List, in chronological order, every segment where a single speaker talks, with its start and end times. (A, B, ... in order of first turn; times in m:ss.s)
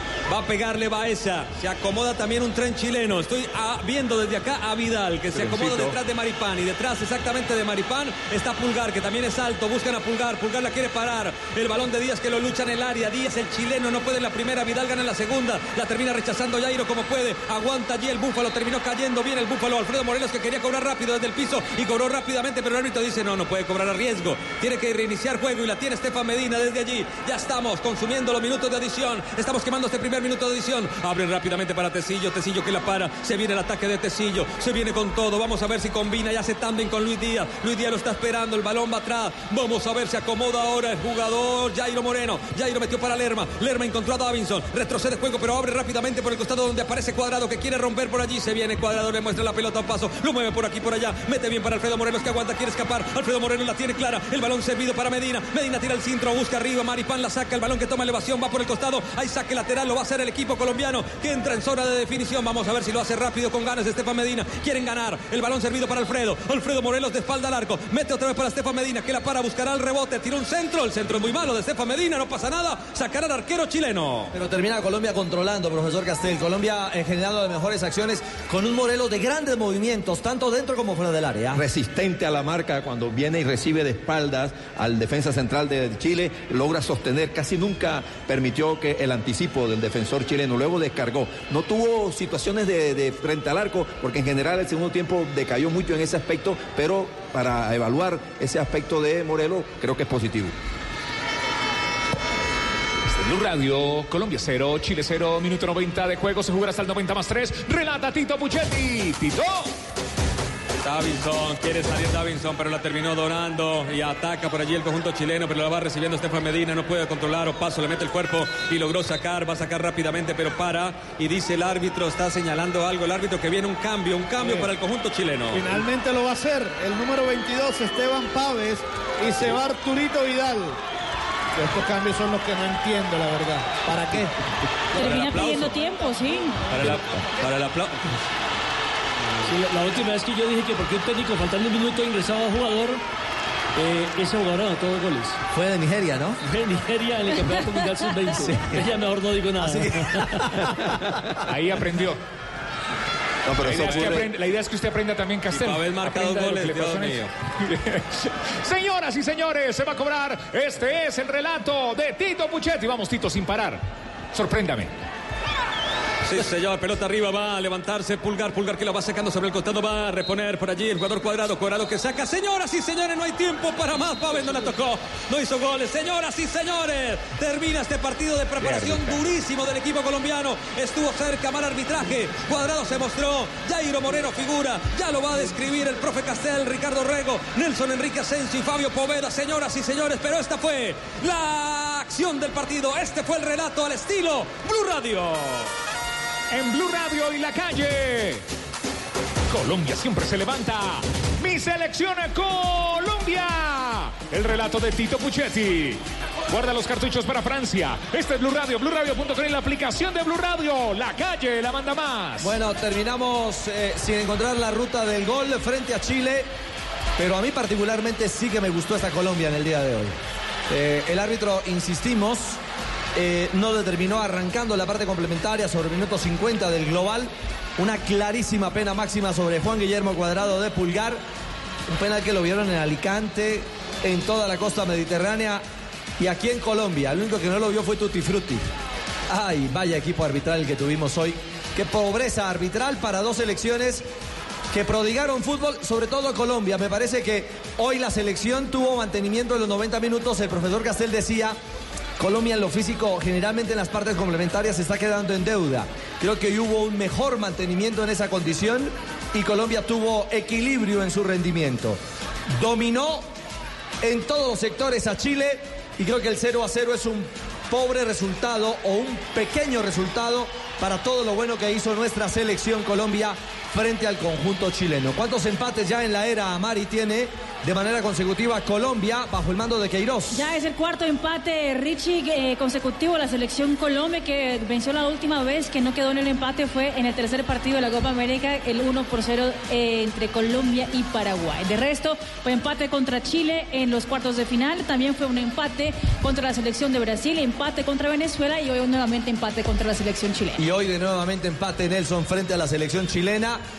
0:00.3-1:14.3 A
0:05.3-0:05.9 B
1:14.3-1:21.6 C
1:21.5-1:40.5 D
1:43.0-1:49.7 B
1:50.8-2:05.8 A
2:04.4-2:04.7 E
2:05.5-2:10.8 E
2:11.6-2:14.3 E
2:14.9-2:15.8 A
2:14.9-2:16.7 F
2:16.7-2:18.2 A
2:19.4-2:23.0 G
2:23.8-2:25.4 G
2:25.5-2:26.4 C
2:26.4-2:30.9 G
2:28.4-2:28.8 C
2:29.6-2:30.9 C
2:31.4-2:32.2 B
2:33.4-2:34.3 D
2:33.6-2:43.8 B
2:33.8-2:34.1 A
2:35.5-2:37.3 A
2:44.3-2:44.9 B
2:46.2-3:15.7 A
2:58.6-2:59.2 B
3:16.5-3:18.4 B
3:19.5-3:32.6 B
3:32.4-3:36.5 C
3:37.2-3:40.2 C
3:40.7-3:42.6 C
3:43.1-3:51.2 C
3:51.9-3:55.6 C
3:56.2-3:58.6 C
3:59.3-4:04.0 C
4:04.7-4:11.6 C
4:12.2-4:22.0 C
4:22.5-4:23.2 C
4:24.0-4:40.4 C
4:40.3-5:00.6 F
5:00.6-5:03.6 C